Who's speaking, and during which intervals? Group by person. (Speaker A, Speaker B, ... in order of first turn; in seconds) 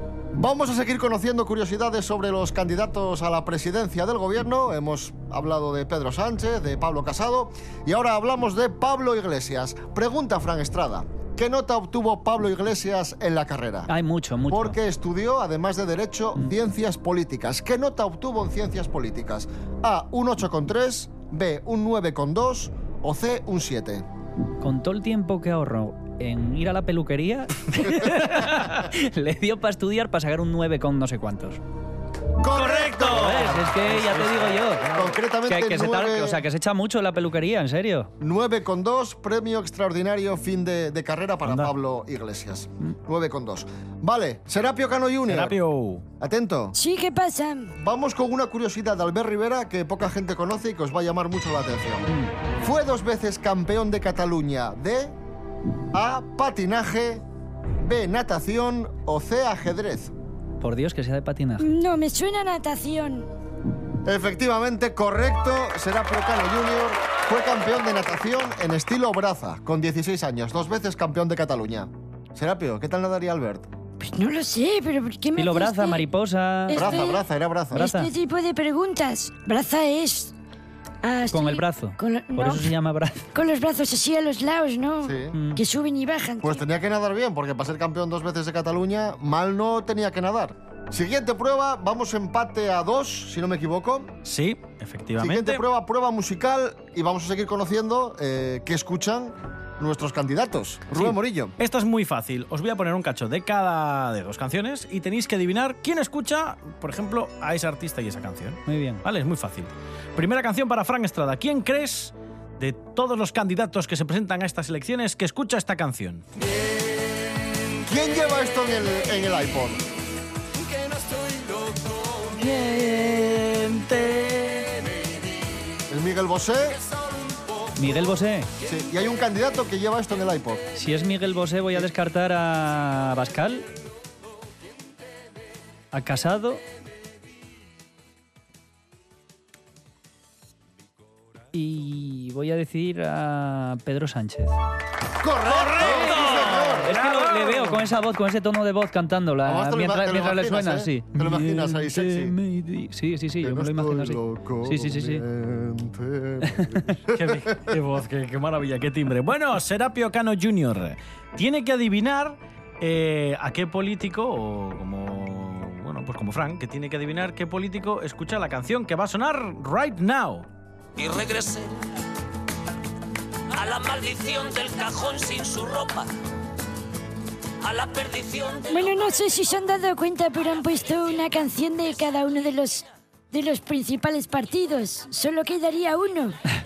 Speaker A: 0.3-13.9, 14.5-24.1, 32.4-33.7, 34.8-36.4, 38.2-45.6, 46.2-46.8, 47.8-55.2, 55.9-57.2, 57.8-60.1, 64.0-73.7, 76.7-77.8, 85.0-85.4, 86.4-94.2, 95.2-101.5, 117.8-119.8, 125.9-126.8, 128.6-130.6, 145.2-146.9, 149.4-152.4, 153.4-157.4
Speaker B: 13.9-14.8, 24.6-31.6, 33.0-34.9, 35.5-38.1, 60.6-61.7, 75.3-77.0, 77.7-78.1, 81.3-83.3, 85.3-85.6, 108.7-109.0, 127.8-128.5, 130.8-133.7, 135.9-136.6, 141.5-144.6, 145.8-155.2, 156.4-156.9
Speaker C: 32.5-35.0, 45.3-46.0, 94.2-95.6, 101.6-116.2, 122.2-124.8, 145.5-147.8, 157.1-170.5
Speaker D: 46.7-47.7, 61.6-63.3, 74.0-76.0, 76.7-80.3, 81.0-82.7, 83.3-86.6, 178.7-186.4
Speaker E: 171.0-171.8, 173.5-176.1, 177.6-178.9